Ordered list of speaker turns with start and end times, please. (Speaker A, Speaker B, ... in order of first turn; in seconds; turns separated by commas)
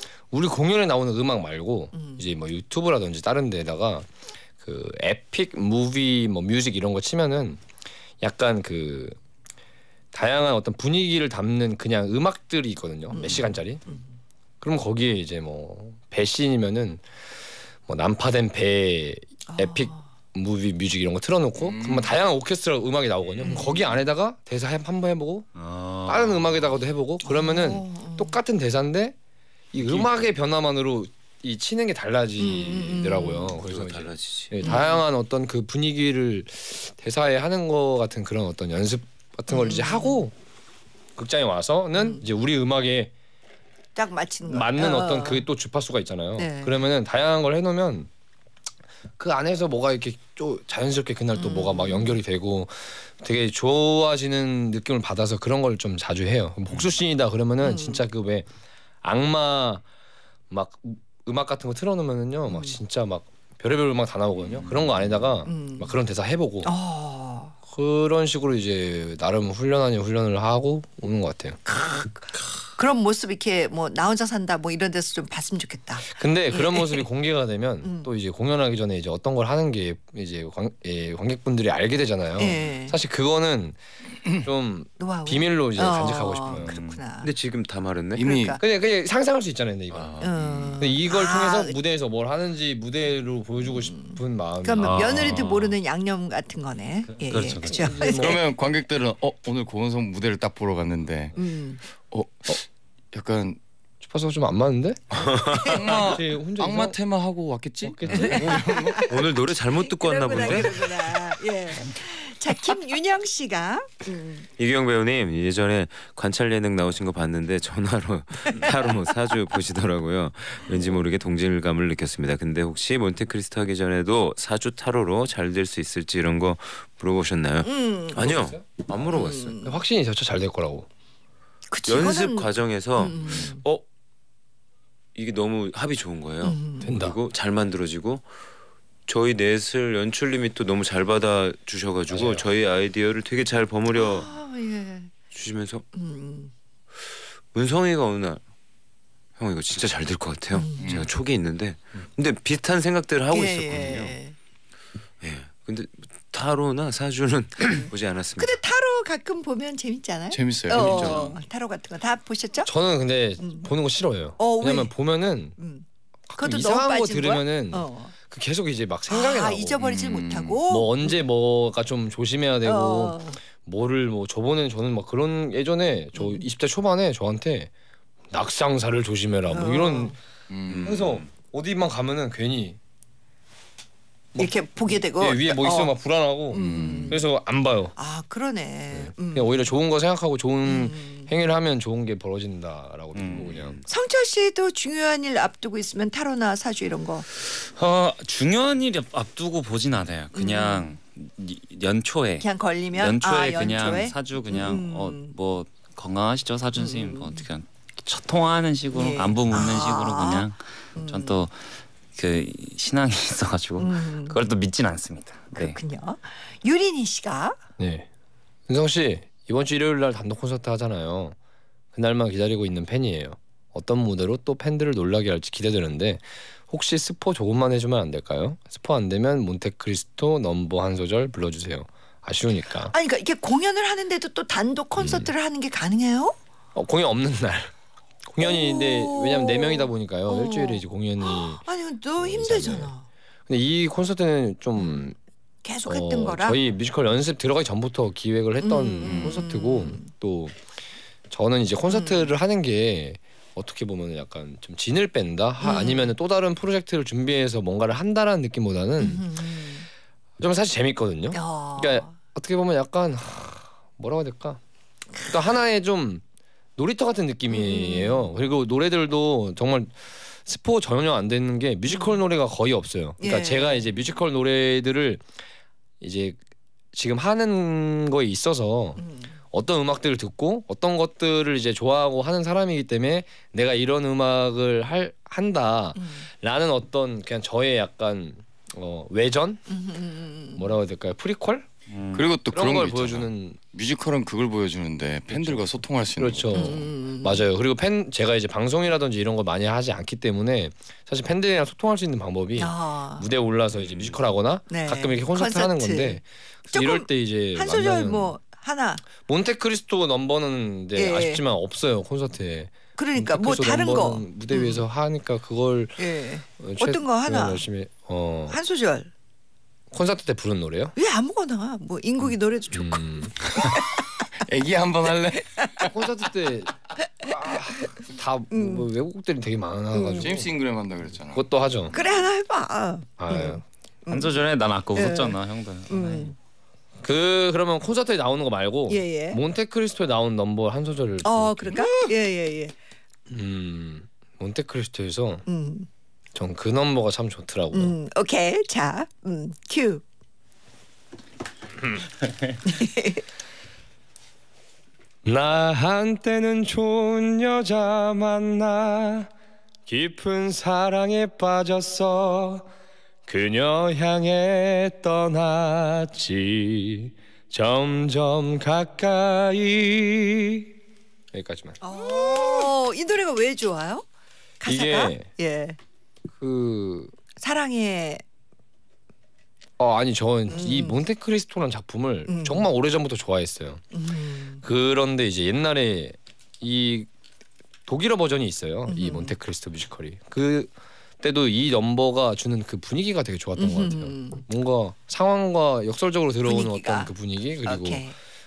Speaker A: 0.3-4.1, Speaker B: 1.9-2.3, Speaker A: 4.6-7.6, Speaker A: 8.2-9.2, Speaker A: 10.1-13.8, Speaker B: 13.1-14.1, Speaker A: 14.6-17.0, Speaker A: 17.9-25.5, Speaker B: 19.5-20.1, Speaker C: 21.6-22.1, Speaker B: 23.4-23.8, Speaker D: 25.6-26.7, Speaker A: 26.1-29.2, Speaker B: 27.2-28.4, Speaker A: 29.7-40.3, Speaker E: 29.8-30.1, Speaker B: 32.4-33.6, Speaker E: 33.6-34.6, Speaker B: 34.6-35.0, Speaker B: 39.5-40.2, Speaker A: 41.2-43.1, Speaker B: 42.0-42.2, Speaker B: 44.0-45.5, Speaker A: 44.5-48.1, Speaker B: 46.4-46.8, Speaker A: 49.2-58.5, Speaker B: 51.4-52.2, Speaker B: 57.6-58.0, Speaker A: 59.0-59.8, Speaker A: 60.5-66.7, Speaker B: 62.5-62.8, Speaker B: 65.5-66.0, Speaker B: 66.6-67.5, Speaker A: 67.7-71.6, Speaker B: 71.7-77.1, Speaker A: 76.1-83.8, Speaker B: 77.8-78.1, Speaker B: 82.4-83.0, Speaker A: 84.3-86.7, Speaker B: 85.0-87.3, Speaker D: 86.6-87.0, Speaker E: 87.2-88.2, Speaker C: 88.2-88.6, Speaker B: 88.2-88.6, Speaker A: 88.6-90.2, Speaker E: 89.9-90.3, Speaker D: 90.1-90.7, Speaker B: 90.2-91.8, Speaker A: 90.8-95.5, Speaker B: 93.7-98.3, Speaker D: 94.8-95.7, Speaker D: 97.2-98.0, Speaker A: 97.6-98.4, Speaker C: 98.0-101.3, Speaker B: 101.4-101.8, Speaker C: 102.1-103.6, Speaker A: 104.0-107.0, Speaker E: 105.2-105.8, Speaker B: 105.5-106.0, Speaker C: 105.7-109.1, Speaker A: 107.8-108.6, Speaker B: 108.2-109.2, Speaker E: 108.2-111.0, Speaker B: 109.8-114.5, Speaker A: 110.4-110.7, Speaker E: 114.6-129.6, Speaker B: 127.6-128.5, Speaker A: 128.2-128.9, Speaker B: 129.1-129.8, Speaker A: 129.6-130.9, Speaker B: 131.7-133.6, Speaker E: 131.9-133.8, Speaker E: 135.2-138.3, Speaker B: 136.4-136.9, Speaker A: 136.8-137.2, Speaker E: 139.1-144.3, Speaker A: 142.1-142.5, Speaker B: 143.9-145.1, Speaker E: 145.3-145.9, Speaker B: 145.9-146.5, Speaker E: 147.5-148.4, Speaker E: 149.4-154.2, Speaker B: 150.5-150.9, Speaker C: 150.8-151.1, Speaker B: 153.3-154.3, Speaker E: 155.2-158.6, Speaker B: 157.7-162.7, Speaker C: 160.3-161.2, Speaker E: 160.7-161.4, Speaker A: 162.7-165.6, Speaker B: 163.4-163.7, Speaker B: 164.4-164.9, Speaker B: 165.6-165.8, Speaker A: 166.3-177.7, Speaker B: 166.4-168.1, Speaker B: 169.1-171.2, Speaker B: 172.7-173.4, Speaker B: 176.2-176.4, Speaker A: 178.3-180.2, Speaker B: 179.5-180.2, Speaker C: 180.5-181.0, Speaker E: 180.7-181.3, Speaker A: 180.8-182.8, Speaker A: 184.3-187.9, Speaker B: 184.4-185.9, Speaker B: 186.5-187.2, Speaker C: 186.5-187.2, Speaker B: 188.0-189.7, Speaker A: 188.9-193.8, Speaker B: 190.7-191.3, Speaker D: 193.1-193.8, Speaker B: 193.9-197.3, Speaker D: 197.5-215.8, Speaker B: 200.3-201.0, Speaker B: 202.4-205.3, Speaker B: 206.8-207.5, Speaker B: 208.9-211.4, Speaker B: 213.8-214.4, Speaker B: 215.5-217.6, Speaker A: 217.8-218.1, Speaker A: 218.7-221.4, Speaker A: 221.9-232.9, Speaker B: 232.9-236.4, Speaker A: 235.0-235.3, Speaker A: 236.8-237.7, Speaker A: 238.3-241.6, Speaker B: 238.4-243.1, Speaker A: 242.2-242.9, Speaker A: 243.5-245.2, Speaker B: 245.6-246.6, Speaker A: 245.9-250.7, Speaker B: 248.6-250.1, Speaker C: 249.0-249.4, Speaker A: 251.3-259.4, Speaker B: 251.9-252.3, Speaker B: 255.6-256.1, Speaker B: 259.0-259.9, Speaker A: 260.4-264.6, Speaker B: 261.3-262.1, Speaker A: 265.2-266.2, Speaker A: 266.8-275.2, Speaker B: 267.5-268.3, Speaker B: 271.9-272.2, Speaker B: 273.2-273.9, Speaker A: 276.0-276.4, Speaker A: 276.9-289.6, Speaker B: 279.0-279.4, Speaker B: 286.0-286.3, Speaker B: 289.7-290.8, Speaker A: 290.6-291.7, Speaker D: 291.9-292.2, Speaker C: 292.1-296.8, Speaker A: 292.5-293.6, Speaker A: 295.3-308.3, Speaker B: 296.5-297.4, Speaker B: 302.6-303.3, Speaker E: 303.9-304.1, Speaker B: 304.7-306.2, Speaker B: 306.7-309.0, Speaker A: 309.2-318.6, Speaker B: 310.9-311.4, Speaker B: 313.0-314.8, Speaker B: 316.0-317.6, Speaker B: 318.5-319.1, Speaker A: 319.9-320.9, Speaker B: 321.0-324.0, Speaker A: 322.7-323.3, Speaker C: 323.6-323.8, Speaker C: 324.4-325.9, Speaker A: 325.8-330.5, Speaker B: 328.5-328.9, Speaker B: 329.9-330.3, Speaker C: 330.2-332.2, Speaker A: 331.3-331.9, Speaker B: 331.9-335.4, Speaker A: 333.2-333.6, Speaker D: 334.1-336.3, Speaker B: 335.9-336.4, Speaker A: 337.0-342.1, Speaker B: 338.9-339.4, Speaker B: 341.2-342.7, Speaker A: 343.3-345.5, Speaker B: 345.5-345.9, Speaker A: 346.3-348.0, Speaker B: 347.7-350.0, Speaker B: 352.6-353.2, Speaker A: 355.2-359.3, Speaker A: 359.9-362.7, Speaker A: 363.3-370.7, Speaker A: 371.3-372.7, Speaker B: 371.8-374.1, Speaker B: 374.6-375.8, Speaker A: 374.6-375.3, Speaker A: 376.4-377.1, Speaker B: 377.4-378.2, Speaker A: 379.8-383.9, Speaker B: 380.5-381.0, Speaker B: 382.3-382.7, Speaker B: 383.9-384.6, Speaker A: 384.6-387.1, Speaker A: 387.9-398.1, Speaker B: 388.9-389.3, Speaker B: 393.6-394.4, Speaker B: 396.4-397.1, Speaker B: 397.6-398.2